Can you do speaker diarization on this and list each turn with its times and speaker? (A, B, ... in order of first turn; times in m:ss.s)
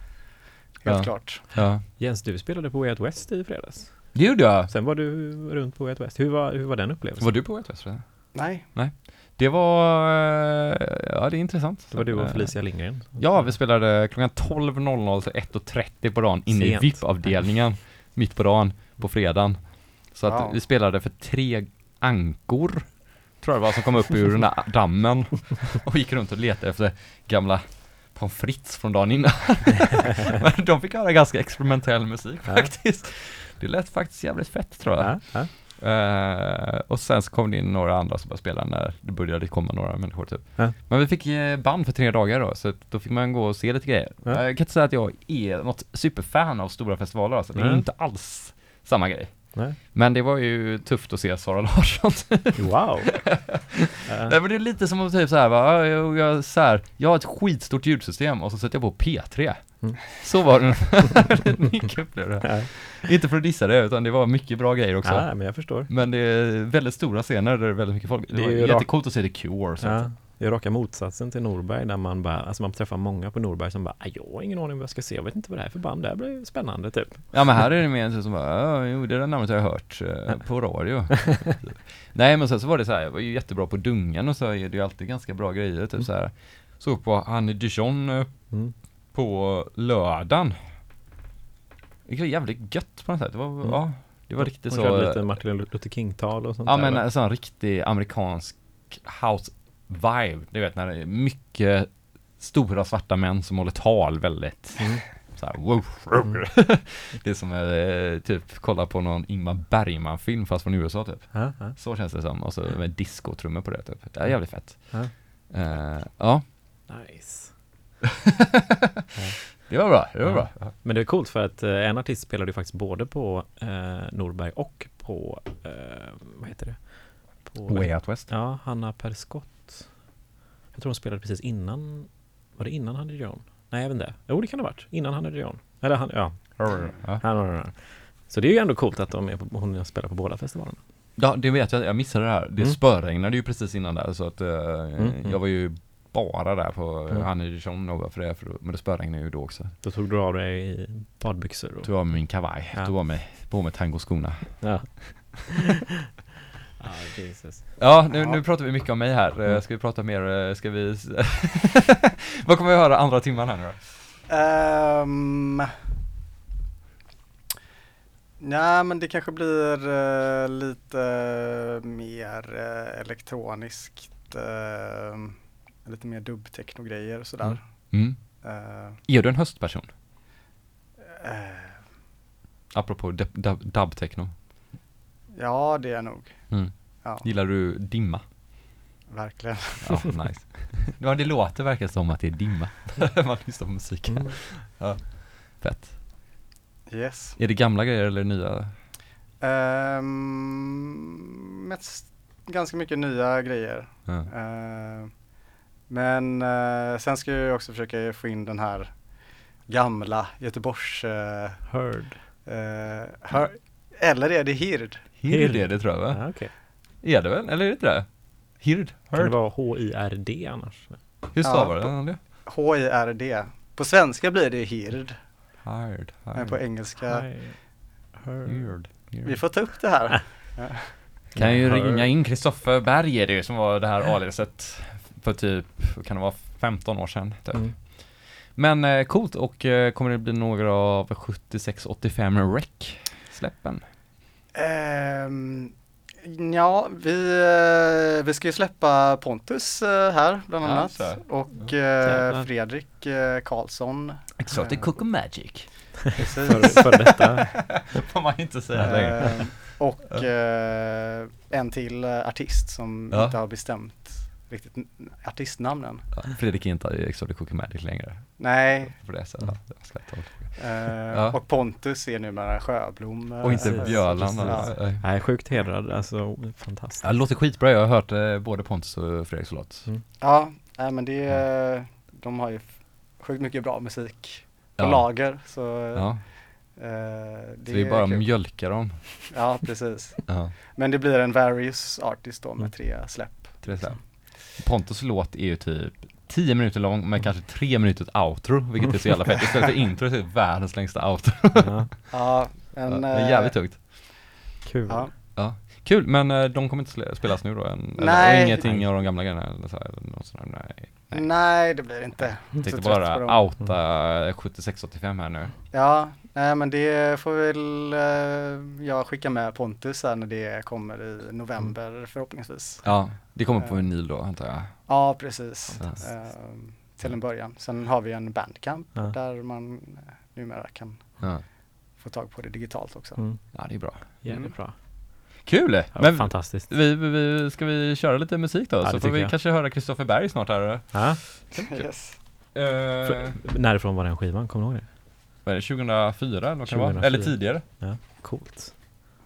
0:00.8-0:01.4 A
0:00.8-0:01.8 B
0:01.6-0:07.4 C
0:04.1-0:04.7 B
0:07.2-1:10.1 B
0:08.3-0:08.6 A
0:11.9-0:13.5 C
0:16.5-0:17.5 C
0:20.2-0:20.6 A
0:35.0-0:35.5 C
0:47.5-0:47.8 C
0:52.5-0:53.4 C
0:54.0-0:54.4 C
1:02.4-1:02.7 C
1:05.0-1:05.9 C
1:08.3-1:17.6 C
1:17.3-1:30.6 B
1:32.0-1:35.2 B
1:33.6-1:37.0 C
1:36.6-1:56.4 B
1:44.8-1:45.0 C
1:51.3-1:51.8 C
1:54.3-1:55.1 C
1:56.9-1:57.5 C
1:59.2-1:59.6 C
1:59.6-2:00.7 B
2:00.2-2:09.9 C
2:07.7-2:08.3 B
2:10.7-2:20.8 C
2:16.6-2:17.2 B
2:21.2-2:29.7 B
2:25.0-2:25.4 C
2:29.8-2:32.9 C
2:31.8-2:35.0 B
2:34.6-2:35.6 C
2:36.8-2:37.7 C
2:37.8-2:43.9 B
2:38.1-2:38.4 A
2:44.3-2:45.7 A
2:48.4-2:59.0 A
2:57.4-2:58.5 B
2:59.0-2:59.9 B
3:01.1-3:01.8 A
3:02.7-3:04.4 B
3:05.3-3:07.2 A
3:06.5-3:08.2 B
3:09.1-3:10.1 A
3:09.8-3:16.0 B
3:14.1-3:14.3 C
3:16.9-3:17.4 A
3:17.4-3:18.7 B
3:19.4-3:25.2 A
3:25.9-3:29.1 A
3:29.6-3:31.7 A
3:31.7-3:32.2 C
3:32.4-3:35.0 A
3:35.2-3:36.4 B
3:35.3-3:36.5 C
3:37.0-3:39.4 B
3:39.1-3:41.0 C
3:41.3-3:42.2 B
3:41.4-3:45.2 A
3:45.6-3:46.6 B
3:46.3-3:47.3 A
3:47.0-3:47.6 C
3:48.1-3:49.2 C
3:48.4-3:49.3 B
3:49.2-3:51.0 A
3:51.3-3:52.1 C
3:51.3-4:03.8 B
4:04.5-4:14.9 A
4:10.6-4:11.2 B
4:12.0-4:12.5 C
4:14.4-4:20.2 B
4:16.2-4:16.9 A
4:16.5-4:17.5 C
4:18.8-4:26.1 A
4:23.1-4:23.4 B
4:26.1-4:31.4 B
4:28.4-4:29.0 A
4:30.6-4:34.7 A
4:33.4-4:35.0 B
4:33.4-4:37.1 C
4:37.0-4:39.9 B
4:40.2-4:48.3 A
4:44.8-4:46.2 B
4:47.7-4:49.3 B
4:49.3-4:53.9 A
4:50.3-4:50.5 B
4:53.6-5:02.1 B
5:01.5-5:01.9 C
5:02.1-5:03.6 A
5:02.8-5:04.1 B
5:04.6-5:05.1 C
5:05.3-5:15.5 B
5:08.0-5:08.7 A
5:08.6-5:08.9 C
5:11.1-5:13.4 A
5:15.7-5:23.8 A
5:22.8-5:25.1 B
5:24.9-5:31.4 A
5:32.0-5:33.2 A
5:33.2-5:34.7 C
5:33.5-5:34.1 B
5:34.2-5:34.5 A
5:35.4-5:41.9 B
5:35.9-5:36.7 C
5:38.8-5:39.3 C
5:40.9-5:41.2 C
5:41.6-5:42.2 A
5:42.5-5:43.4 B
5:43.0-5:44.9 C
5:45.4-5:47.6 B
5:46.6-5:48.7 C